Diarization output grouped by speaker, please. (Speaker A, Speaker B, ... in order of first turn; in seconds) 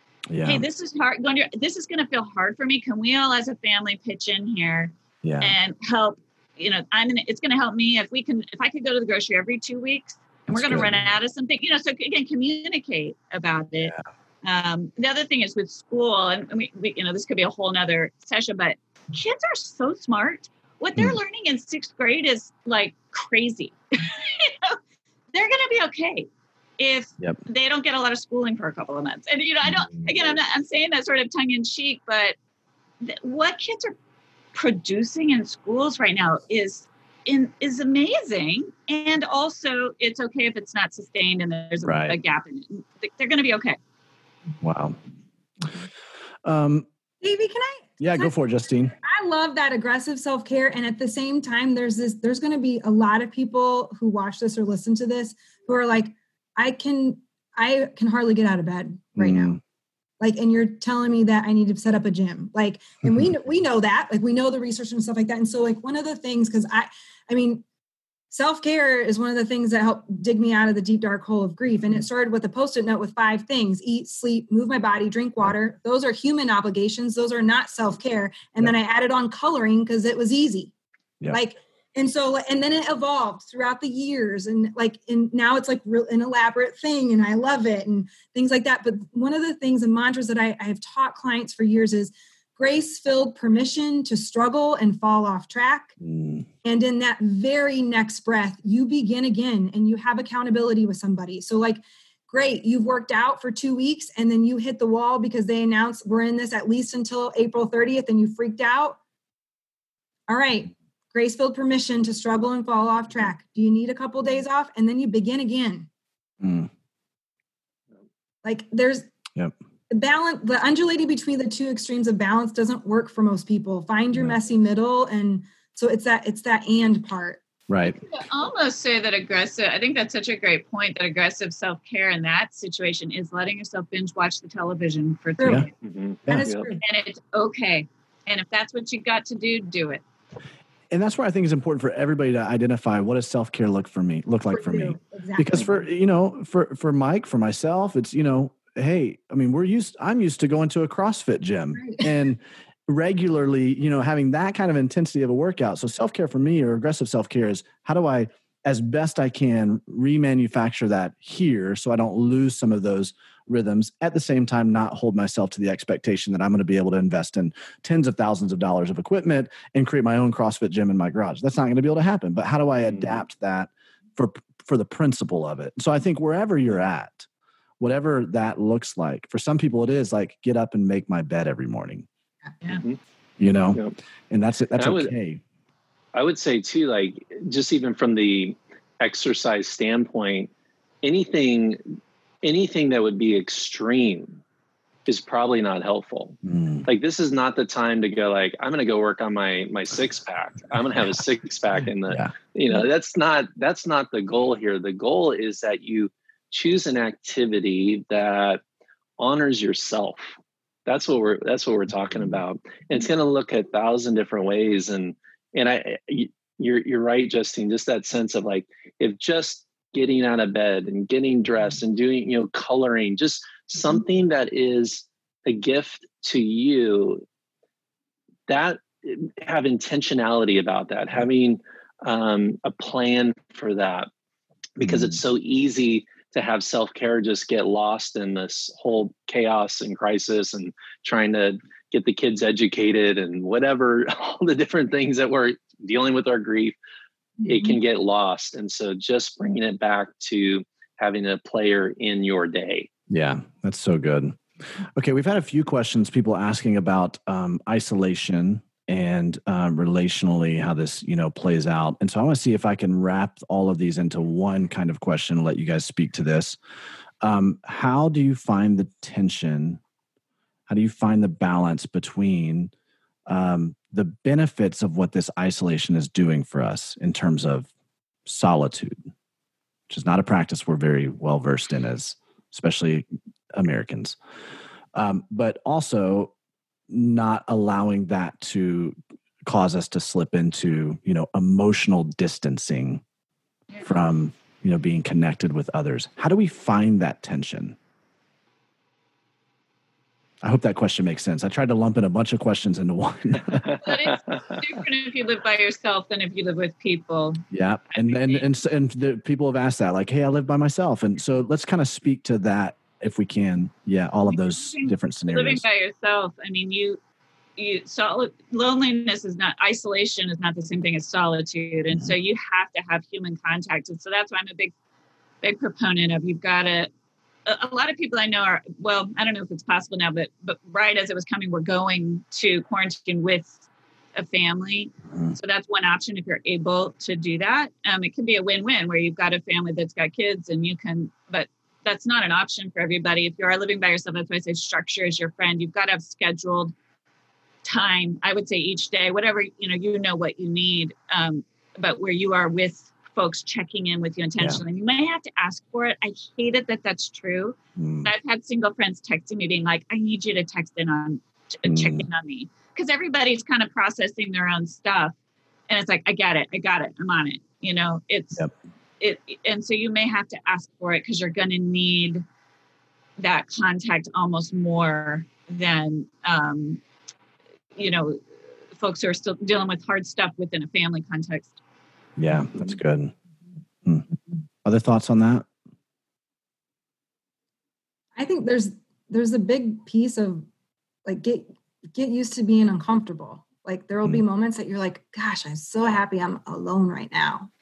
Speaker A: 0.3-0.6, 5.2-5.5, 10.5-11.0, 29.6-30.1, 41.8-42.2, 44.6-45.0, 46.4-46.9, 48.0-48.9, 59.2-59.6, 96.0-96.5, 116.4-116.7, 127.7-128.0, 135.4-135.7, 140.9-177.3, 177.8-182.1, 183.4-185.4, 196.4-196.9, 234.8-235.2, 253.1-266.6, 267.2-269.8, 270.7-272.7, 273.3-277.7, 278.2-279.0, 279.9-284.2, 284.9-286.3, 286.9-293.0, 293.8-297.8, 300.4-303.8, 307.5-315.6, 357.8-358.1, 361.6-362.1, 382.2-383.1, 384.6-385.5
Speaker B: 0.4-24.8, 25.3-32.3, 33.0-34.0, 34.5-43.8, 127.9-135.7, 136.8-140.0, 303.8-308.4, 314.3-317.0, 317.6-324.7, 325.4-326.9, 327.4-333.6, 334.1-346.7, 347.6-365.1, 365.7-368.4, 369.0-372.2, 373.2-376.8, 377.8-378.2, 378.8-381.6
Speaker C: 47.2-48.3, 49.0-59.5, 60.2-67.6, 68.3-80.7, 81.3-95.9, 96.6-109.0, 110.3-115.9, 118.4-119.1, 119.9-127.4, 135.4-135.7, 136.3-136.8, 144.5-145.8, 151.8-152.1, 388.1-390.4, 391.1-397.5
Speaker D: 135.8-136.7, 182.7-183.0, 184.8-185.1, 186.1-190.5, 191.0-191.8, 192.4-194.4, 195.1-208.6, 209.2-227.2, 228.5-234.1, 234.8-246.8, 247.4-252.9, 303.5-304.6